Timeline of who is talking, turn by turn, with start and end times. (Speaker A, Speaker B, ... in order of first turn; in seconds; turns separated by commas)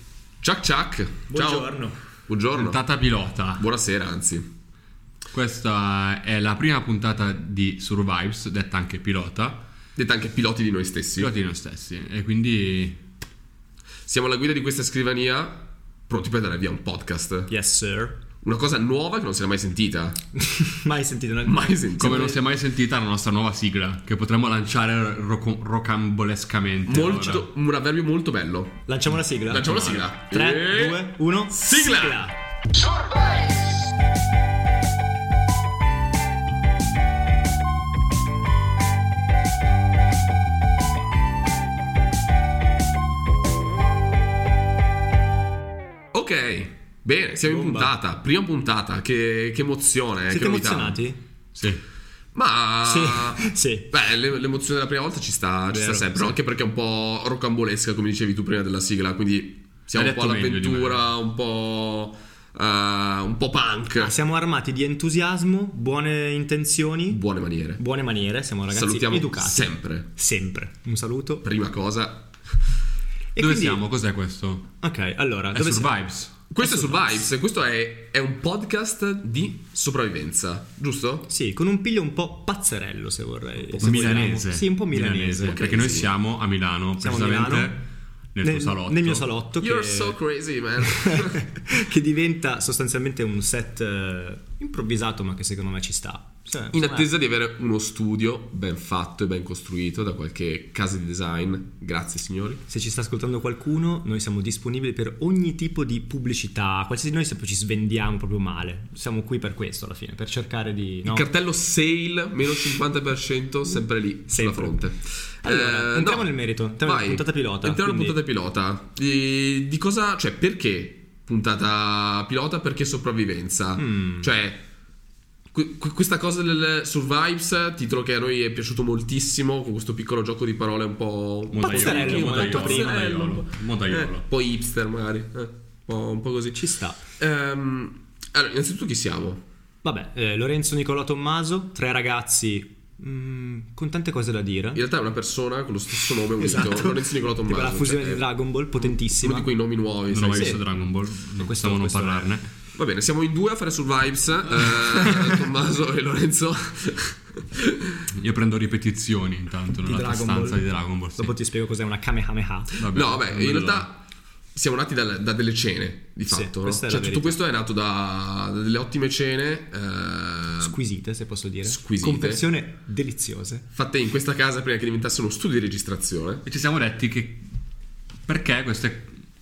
Speaker A: 0.4-1.7, Speaker B: 1.3-2.0, Speaker A: 2.3-2.8, Speaker C: 2.5-3.6, Speaker A: 3.4-4.5, Speaker C: 5.3-9.6, Speaker A: 9.9-11.3, Speaker C: 11.2-13.0, Speaker A: 14.1-17.5, Speaker B: 17.5-18.2, Speaker A: 18.4-20.2, Speaker B: 20.3-22.4, Speaker A: 21.4-22.4, Speaker C: 22.0-27.5, Speaker A: 26.8-28.8, Speaker B: 28.9-32.4, Speaker A: 29.5-32.3, Speaker C: 29.6-30.1, Speaker A: 46.1-51.0, Speaker B: 47.4-47.9, Speaker B: 50.3-51.2, Speaker C: 51.6-51.8, Speaker A: 52.3-64.1, Speaker B: 52.8-53.9, Speaker B: 55.7-56.4, Speaker C: 59.9-61.0, Speaker B: 64.0-67.2, Speaker A: 67.1-67.8, Speaker B: 67.8-71.4, Speaker A: 68.7-70.1, Speaker A: 71.4-72.3, Speaker B: 73.3-73.9, Speaker C: 73.4-74.7, Speaker B: 74.8-77.3, Speaker C: 75.5-76.3, Speaker A: 76.5-81.3, Speaker B: 81.3-85.9, Speaker C: 83.8-87.8, Speaker A: 85.5-86.1, Speaker B: 87.0-87.8, Speaker C: 88.3-89.3, Speaker B: 88.4-90.2, Speaker A: 89.6-91.4, Speaker B: 90.8-97.1, Speaker A: 96.7-102.6, Speaker B: 102.7-111.3, Speaker A: 111.0-124.7, Speaker B: 114.3-114.8, Speaker B: 115.4-118.2, Speaker B: 123.8-124.3, Speaker A: 125.5-139.4, Speaker C: 131.5-134.2, Speaker B: 131.6-133.4, Speaker B: 136.5-137.0, Speaker B: 139.8-144.8, Speaker A: 144.7-148.3, Speaker B: 146.3-149.7, Speaker A: 148.8-150.6, Speaker C: 150.1-152.5, Speaker B: 150.3-152.4, Speaker A: 152.7-157.9, Speaker C: 158.1-161.3, Speaker B: 159.8-162.7, Speaker C: 162.8-163.9, Speaker A: 162.8-164.0, Speaker A: 164.5-170.7, Speaker B: 166.3-167.4, Speaker B: 170.6-173.6, Speaker A: 171.6-172.4, Speaker A: 173.7-176.4, Speaker C: 176.4-177.4, Speaker C: 178.3-179.1